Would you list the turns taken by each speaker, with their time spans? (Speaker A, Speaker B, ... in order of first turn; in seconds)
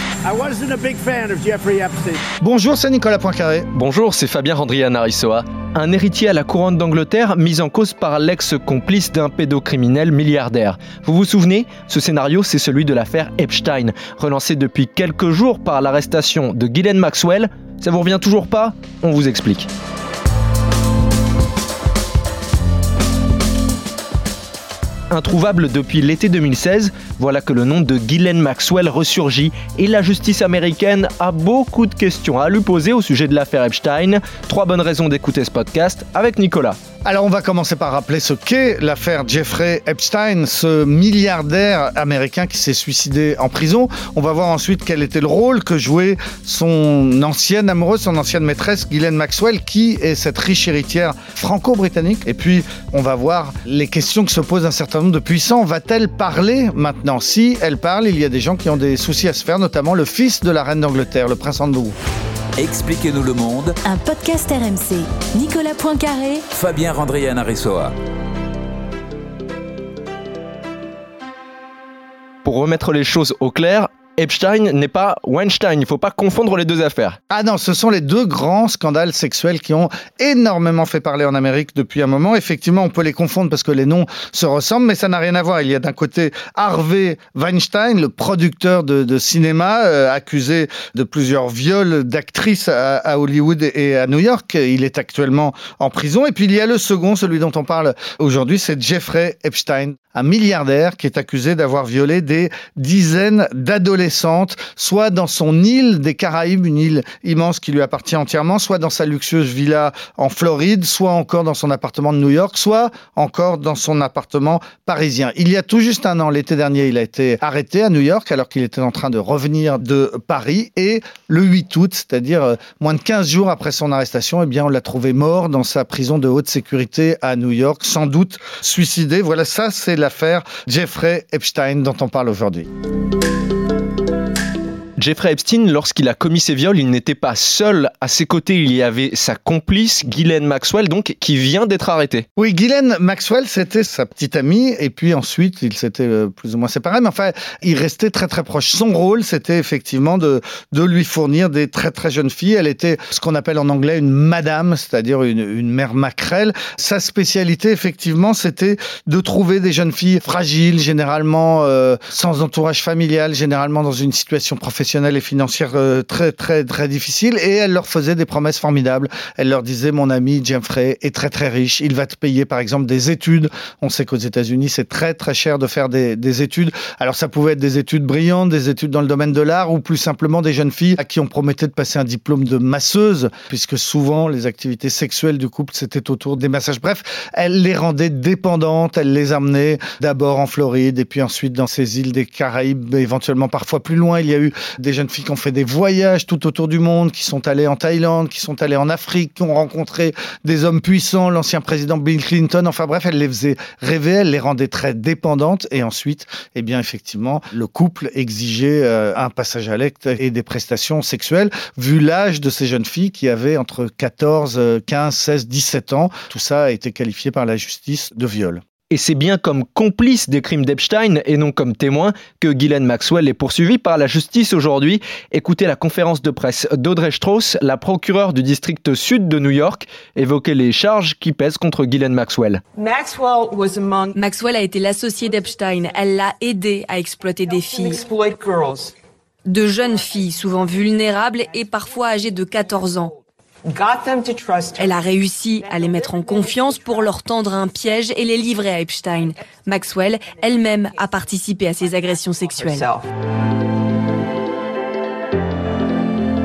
Speaker A: 0.2-2.2
Speaker B: 2.4-3.7, 37.0-61.9, 77.3-132.7, 142.4-218.6
Speaker C: 3.7-19.7, 25.1-36.8, 72.4-77.2, 135.0-142.2, 218.9-232.6
Speaker D: 62.6-63.8, 66.5-67.9
Speaker E: 63.8-66.4
Speaker F: 232.8-234.2, 235.2-236.2, 237.4-238.9, 239.7-241.1, 241.6-242.9, 243.6-248.2, 250.5-251.0, 252.3-253.1
Speaker G: 234.2-238.0, 239.4-243.1, 244.8-252.8